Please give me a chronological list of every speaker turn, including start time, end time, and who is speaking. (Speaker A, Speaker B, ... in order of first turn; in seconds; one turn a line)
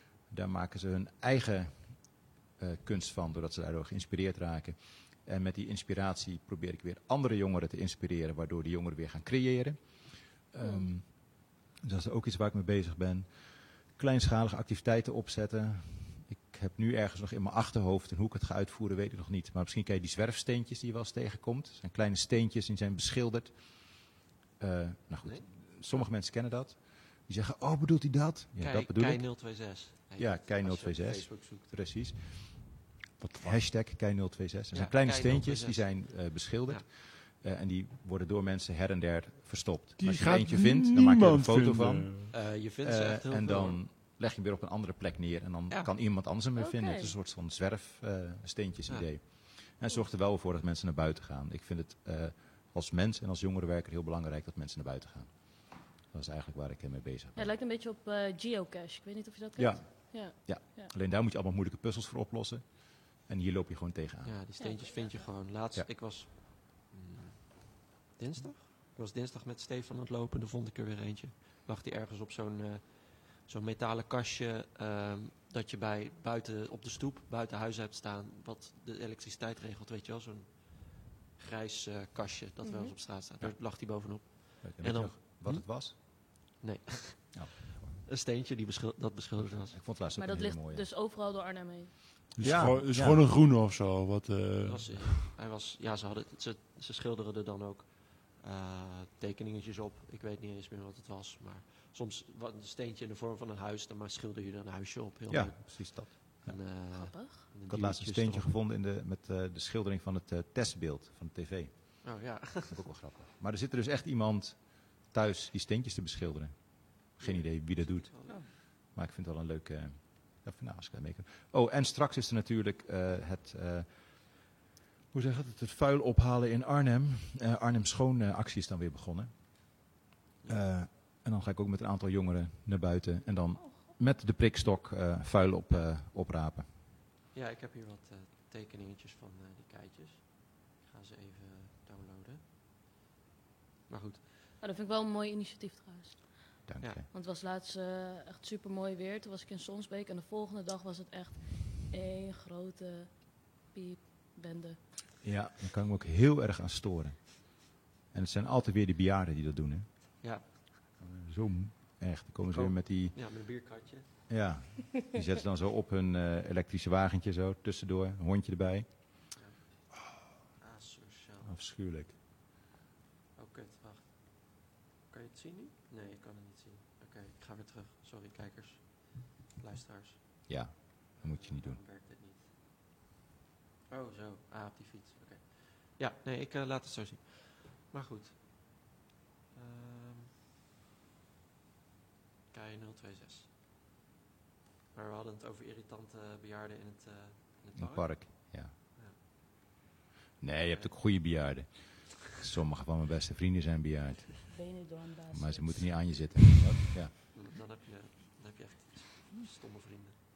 Speaker A: 0.2-29.3
Speaker B: 10.6-10.9
Speaker C: 25.2-26.1
Speaker C: 28.6-31.7
Speaker A: 30.2-32.9
Speaker D: 33.2-33.6
Speaker A: 33.4-57.5
Speaker C: 34.7-36.8
Speaker D: 40.0-42.3
Speaker C: 42.3-43.8
Speaker B: 46.5-47.1
Speaker B: 57.4-60.9
Speaker A: 59.6-64.4
Speaker C: 64.2-89.8
Speaker B: 64.6-65.3
Speaker B: 82.6-82.9
Speaker A: 84.2-85.9
Speaker A: 87.3-88.0
Speaker A: 89.4-90.8
Speaker B: 90.1-91.9
Speaker D: 92.4-95.2
Speaker A: 92.4-93.2
Speaker C: 94.6-108.5
Speaker A: 105.3-106.6
Speaker B: 106.9-107.4
Speaker A: 107.7-112.1
Speaker C: 112.0-112.8
Speaker A: 112.7-124.5
Speaker C: 117.2-118.4
Speaker A: 125.1-129.3
Speaker A: 130.5-136.7
Speaker C: 137.3-142.4
Speaker C: 143.9-144.2
Speaker B: 144.6-154.8
Speaker A: 146.7-147.1
Speaker A: 155.2-159.9
Speaker A: 161.0-163.2
Speaker C: 162.5-164.1
Speaker A: 164.3-168.9
Speaker C: 170.6-171.6
Speaker A: 171.4-172.1
Speaker C: 173.3-182.5
Speaker A: 180.5-181.8
Speaker C: 183.9-188.3
Speaker C: 189.5-190.3
Speaker C: 192.5-193.5
Speaker C: 194.9-199.2
Speaker A: 197.8-198.7
Speaker A: 200.4-204.5
Speaker B: 204.5-205.8
Speaker A: 205.3-207.1
Speaker C: 207.3-210.2